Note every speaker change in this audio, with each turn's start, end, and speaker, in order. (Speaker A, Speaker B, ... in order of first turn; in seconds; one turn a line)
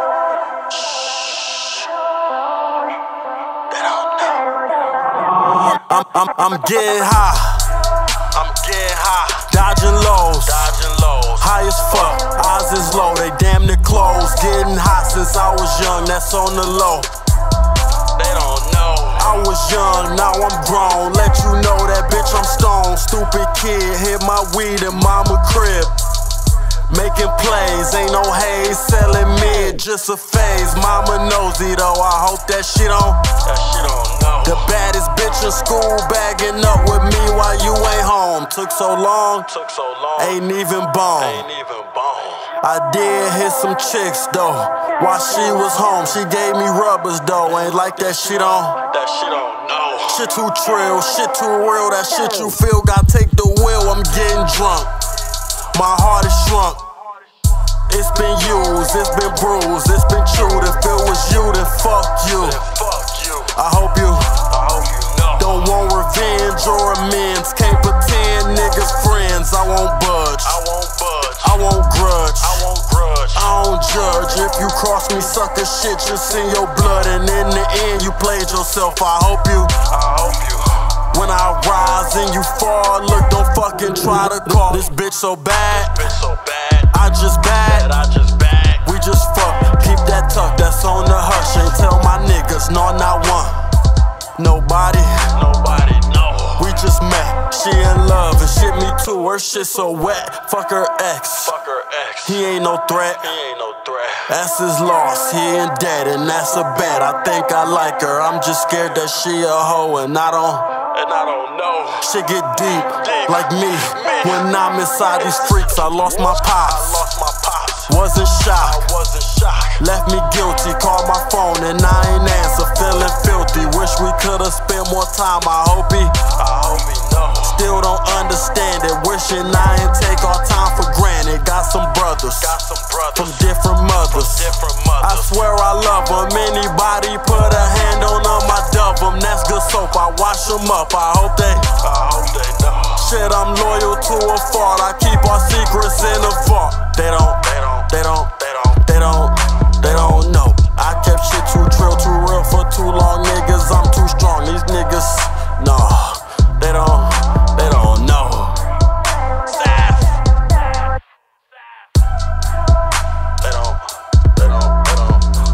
Speaker A: 0.8-1.5
Speaker B: 3.7-4.5
Speaker A: 5.5-7.7
Speaker B: 8.3-9.5
Speaker A: 9.4-10.7
Speaker B: 10.4-12.2
Speaker A: 11.4-17.1
Speaker B: 18.1-19.5
Speaker A: 19.2-25.9
Speaker A: 26.9-33.4
Speaker B: 33.4-34.7
Speaker A: 34.4-39.5
Speaker B: 39.5-40.4
Speaker A: 40.2-41.5
Speaker B: 41.2-42.6
Speaker A: 42.6-48.8
Speaker B: 47.6-50.3
Speaker A: 50.1-54.9
Speaker A: 55.7-56.8
Speaker A: 57.9-62.6
Speaker B: 62.3-63.6
Speaker A: 63.5-64.5
Speaker B: 64.4-65.7
Speaker A: 65.4-70.6
Speaker B: 70.4-71.6
Speaker A: 71.4-72.6
Speaker B: 72.4-73.5
Speaker A: 73.3-79.8
Speaker B: 79.8-81.0
Speaker A: 81.1-86.0
Speaker B: 85.7-86.9
Speaker A: 86.9-87.9
Speaker B: 87.6-88.9
Speaker A: 88.8-93.6
Speaker A: 94.3-95.3
Speaker B: 95.3-96.8
Speaker A: 96.6-101.5
Speaker B: 101.4-102.4
Speaker A: 102.2-103.3
Speaker B: 103.2-104.3
Speaker A: 104.3-110.7
Speaker B: 110.8-112.1
Speaker A: 112.0-117.0
Speaker B: 112.7-114.5
Speaker B: 115.2-117.9
Speaker A: 117.9-118.8
Speaker B: 118.5-119.8
Speaker A: 119.8-126.3
Speaker B: 126.3-127.6
Speaker A: 127.4-132.6
Speaker B: 132.4-133.5
Speaker A: 133.2-141.8
Speaker B: 134.0-135.5
Speaker B: 141.7-143.0
Speaker A: 143.0-158.6
Speaker B: 147.5-147.8
Speaker A: 159.5-160.0
Speaker B: 163.4-165.2